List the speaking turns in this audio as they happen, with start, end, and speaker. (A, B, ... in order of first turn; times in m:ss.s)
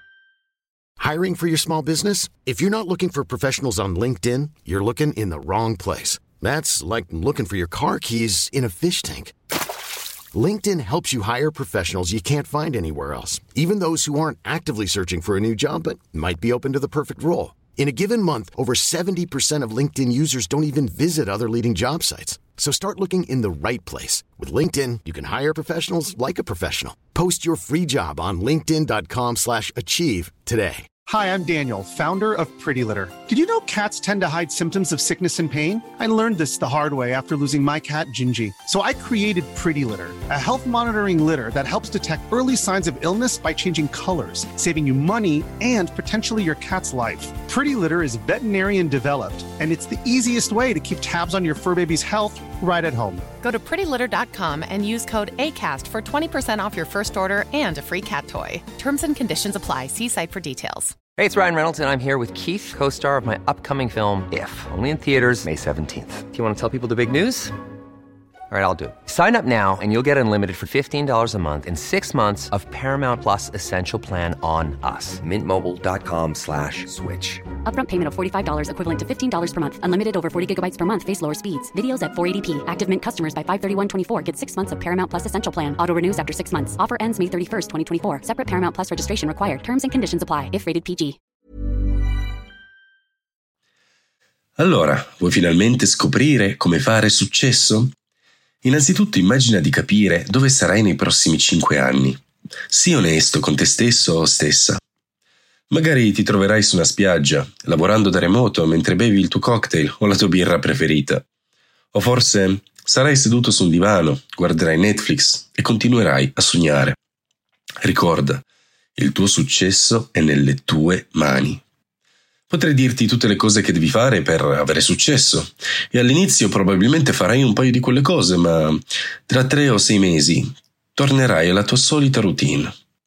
0:01.0-0:09.3 A
0:10.3-0:30.8 A
0:31.1-0:53.2 B
0:53.4-1:00.9 C
1:01.2-1:07.6 D
1:08.5-1:17.5 D
1:17.6-1:31.2 E
1:34.6-1:37.9 F
1:38.6-1:44.8 F
1:45.7-1:51.2 F
1:51.9-1:57.0 F
1:57.8-1:58.4 F
1:59.0-2:01.6 F
2:02.5-2:12.7 F